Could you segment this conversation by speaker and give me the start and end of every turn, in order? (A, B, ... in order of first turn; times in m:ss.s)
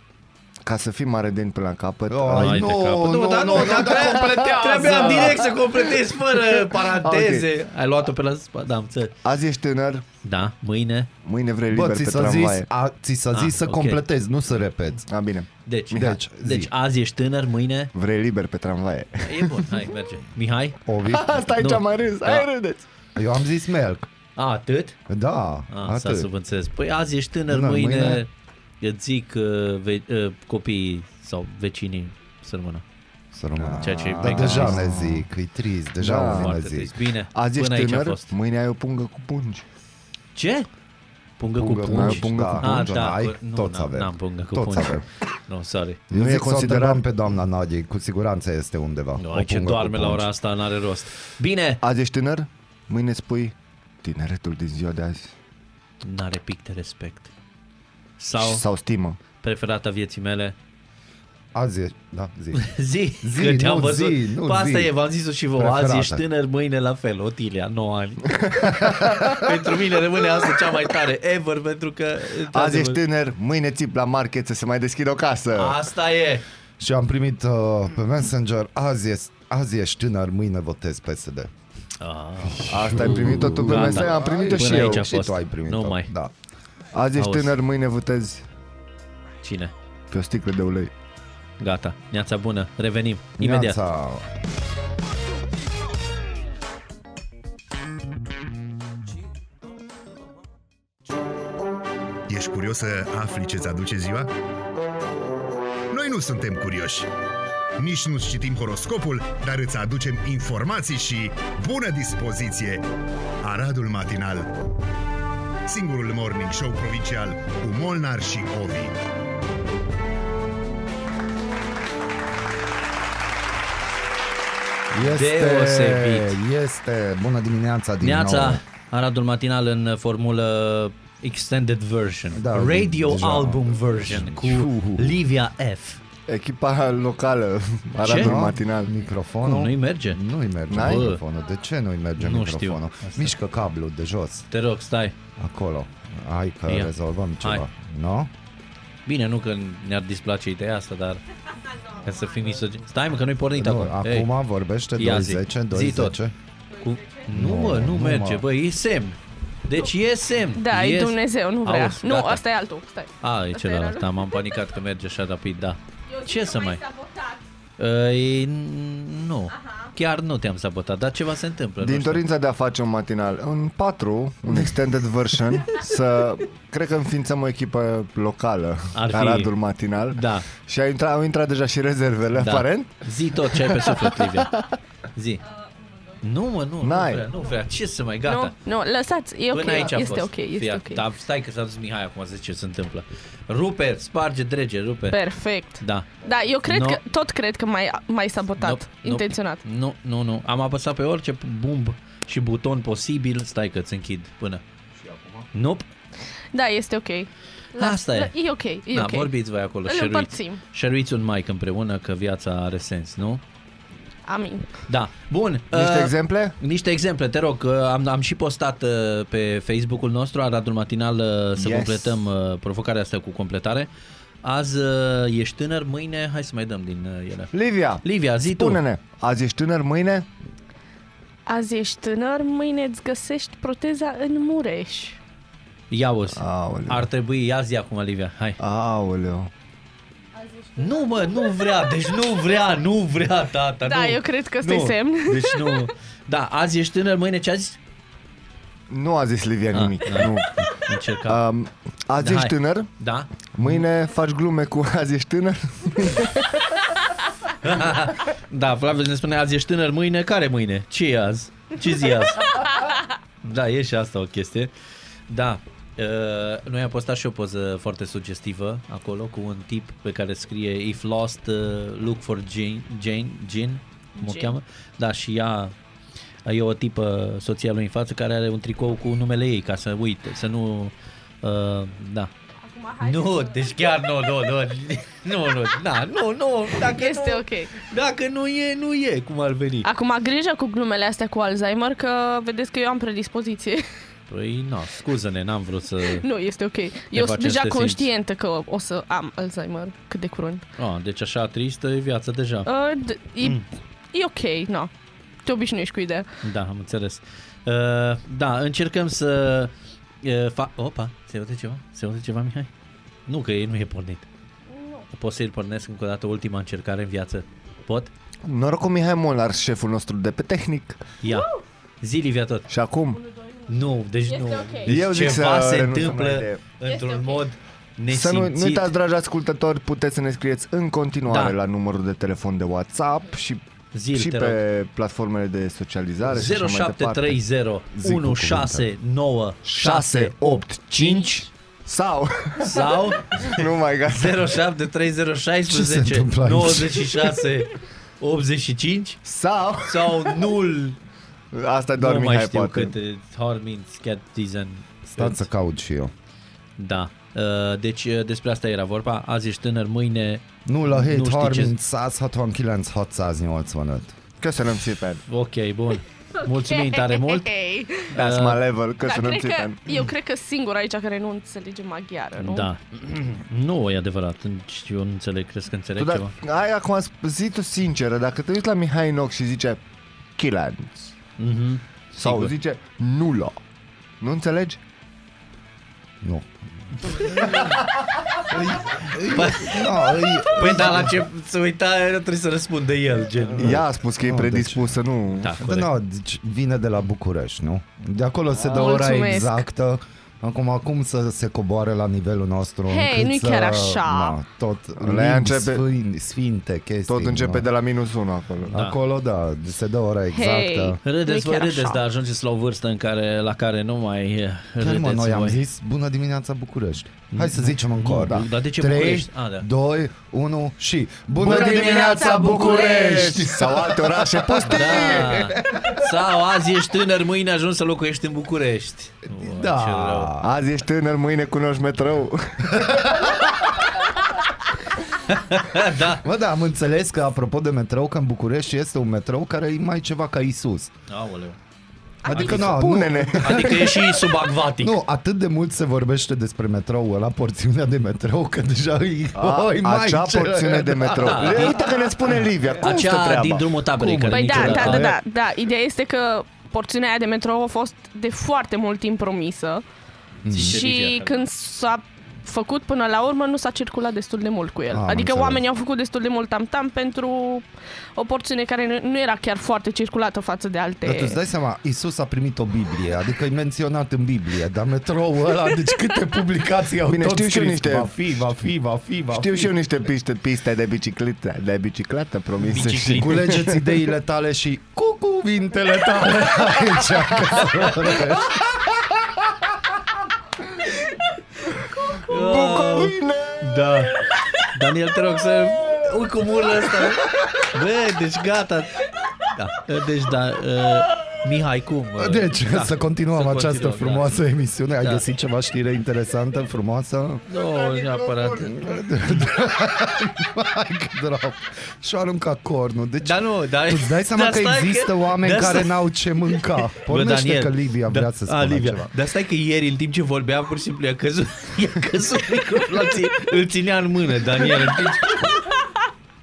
0:00.6-0:02.7 A
0:02.1-0:05.5 B
0:02.3-0:09.2 C
0:03.4-0:07.5 A
0:09.2-0:10.0 A
0:10.2-0:11.1 C
0:11.2-0:12.7 A
0:11.7-0:15.0 B
0:13.3-0:14.0 C
0:15.1-0:16.2 A
0:15.7-0:17.9 C
0:15.9-0:16.7 B
0:17.9-0:19.8 A
0:19.2-0:20.8 C
0:20.9-0:21.5 B
0:21.1-0:22.9 A
0:21.6-0:22.5 C
0:23.2-0:24.1 B
0:24.4-0:25.0 C
0:25.1-0:26.3 B
0:25.7-0:28.3 C
0:27.5-0:28.2 B
0:28.8-0:32.8 C
0:33.3-0:37.0 B
0:33.6-0:35.3 A
0:33.8-0:34.9 C
0:36.0-0:36.6 A
0:36.2-0:38.3 C
0:37.3-0:39.7 A
0:40.4-0:40.7 C
0:41.4-0:46.0 C
0:41.6-0:45.0 B
0:41.8-0:42.9 A
0:46.1-0:50.3 B
0:46.1-0:47.1 A
0:49.2-0:51.8 C
0:51.8-0:55.4 A
0:56.0-0:57.3 C
0:58.2-0:58.6 C
0:58.4-0:59.2 A
0:59.4-1:00.6 C
1:01.5-1:04.9 B
1:02.5-1:13.0 C
1:05.6-1:06.2 B
1:08.7-1:09.3 A
1:12.5-1:15.8 A
1:15.6-1:16.4 C
1:16.8-1:21.5 B
1:22.0-1:26.1 C
1:22.6-1:26.3 B
1:22.7-1:25.1 A
1:26.9-1:28.5 A
1:27.2-1:27.6 C
1:29.4-1:29.7 C
1:30.1-1:30.9 A
1:31.6-1:33.8 C
1:33.4-1:34.2 B
1:42.3-1:44.3 D
1:45.9-1:47.1 D
1:47.8-1:52.9 D
1:53.4-1:54.6 D
1:55.7-1:59.0 D
2:04.9-2:08.6 B
2:05.0-2:06.4 C
2:08.0-2:16.0 C
2:12.3-2:15.2 B
2:16.3-2:19.0 A
2:18.0-2:18.4 C
2:18.1-2:24.5 B
2:19.4-2:21.2 C
2:20.7-2:21.1 A
2:22.2-2:23.4 C
2:24.5-2:25.2 C
2:25.4-2:28.3 B
2:26.7-2:27.7 C
2:29.1-2:31.2 C
2:31.7-2:32.5 E
2:32.0-2:34.3 C
2:33.5-2:36.3 B
2:35.0-2:36.2 C
2:36.7-2:37.3 E
2:36.8-2:42.4 C
2:37.3-2:38.4 B
2:40.6-2:44.5 E
2:43.2-2:46.8 C
2:46.1-2:47.5 E
2:47.8-2:52.2 C
2:49.5-2:49.9 E
2:51.8-3:04.5 A
2:58.9-2:59.5 C
3:00.1-3:00.5 C
3:02.4-3:04.5 C
3:05.1-3:05.4 C
3:05.6-3:06.0 E
3:06.2-3:08.6 C
3:06.8-3:07.3 A
3:08.2-3:11.0 E
3:09.5-3:15.2 C
3:15.1-3:19.6 E
3:15.8-3:17.0 C
3:18.6-3:24.6 C
3:25.5-3:25.9 C
3:26.5-3:29.3 E
3:27.8-3:28.3 C
3:28.9-3:33.4 C
3:29.9-3:30.6 E
3:34.3-3:34.7 E
3:34.9-3:43.9 C
3:35.7-3:36.6 A
3:41.6-3:42.2 A
3:44.4-3:48.8 C
3:47.5-3:50.3 A
3:51.5-3:55.2 E
3:55.9-3:58.6 C
3:56.4-3:57.1 A
3:58.6-3:59.5 A
4:00.3-4:02.2 E
4:00.8-4:07.8 C
4:03.8-4:05.9 E
4:08.9-4:10.6 A
4:09.7-4:11.4 C
4:11.3-4:12.9 A
4:12.2-4:13.8 C
4:13.5-4:16.7 A
4:17.6-4:22.6 C
4:23.4-4:24.7 C
4:25.3-4:35.7 C
4:34.2-4:34.5 E
4:36.5-4:42.3 C
4:42.6-4:44.0 E
4:43.0-4:49.9 C
4:46.8-4:47.7 E
4:49.8-4:53.9 E
4:54.3-4:56.3 C
4:56.1-5:00.6 E
4:57.1-4:58.1 C
5:00.8-5:02.7 C
5:02.7-5:04.9 E
5:05.4-5:06.3 E
5:06.4-5:12.7 C
5:13.3-5:14.3 C
5:14.7-5:15.1 E
5:15.1-5:18.1 C
5:18.4-5:21.0 A
5:21.2-5:22.7 C
5:21.2-5:21.6 E
5:22.7-5:23.2 A
5:23.2-5:25.0 E
5:23.7-5:28.9 C
5:24.8-5:26.6 A
5:26.8-5:27.5 E
5:28.1-5:37.4 A
5:31.3-5:31.6 C
5:33.9-5:34.6 C
5:36.3-5:41.4 C
5:37.9-5:38.9 B
5:39.6-5:44.6 A
5:42.6-5:49.2 C
5:45.7-5:47.3 B
5:49.2-5:50.4 A
5:49.8-5:51.0 C
5:51.5-5:52.9 A
5:52.0-5:55.5 C
5:55.1-5:56.1 B
5:56.8-6:01.8 C
6:00.7-6:04.2 B
6:04.4-6:05.2 A
6:05.3-6:08.6 C
6:06.4-6:08.1 E
6:08.1-6:10.0 A
6:09.0-6:12.7 E
6:12.4-6:16.3 C
6:16.0-6:19.8 A
6:20.4-6:21.1 A
6:21.4-6:22.5 C
6:22.2-6:23.6 A
6:24.2-6:24.8 A
6:26.2-6:27.7 B
6:27.0-6:27.8 C
6:28.5-6:31.2 B
6:28.9-6:33.8 C
6:33.6-6:35.6 A
6:33.6-6:34.9 B
6:35.4-6:35.9 C
6:35.6-6:47.7 B
6:38.7-6:39.7 E
6:42.9-6:44.4 E
6:45.0-6:45.8 A
6:47.1-6:48.8 A
6:48.7-6:51.0 B
6:48.7-6:49.0 C
6:50.3-6:52.0 E
6:51.0-6:55.6 C
6:54.8-7:06.0 B
6:57.3-6:59.7 C
7:01.4-7:05.5 A
7:01.9-7:03.2 E
7:04.6-7:10.3 C
7:09.3-7:10.5 B
7:10.4-7:13.0 A
7:15.3-7:16.2 C
7:16.1-7:20.9 B
7:21.1-7:21.6 C
7:22.2-7:24.0 A
7:22.3-7:24.1 B
7:22.3-7:22.8 C
7:23.4-7:25.0 C
7:24.8-7:31.9 B
7:29.4-7:33.7 A
7:31.2-7:31.9 C
7:32.8-7:35.1 C
7:33.9-7:35.2 B
7:34.3-7:39.8 E
7:40.4-7:40.8 B
7:40.5-7:41.4 C
7:40.6-7:51.4 E
7:44.9-7:45.6 B
7:51.0-7:59.7 B
7:57.1-7:58.2 A
7:59.3-8:03.9 A
8:02.7-8:03.7 C
8:03.1-8:08.6 B
8:12.2-8:24.4 C
8:12.3-8:14.0 A
8:22.2-8:27.4 B
8:27.5-8:28.8 C
8:27.8-8:28.8 A
8:28.5-8:39.1 B
8:33.2-8:36.0 C
8:36.6-8:45.6 C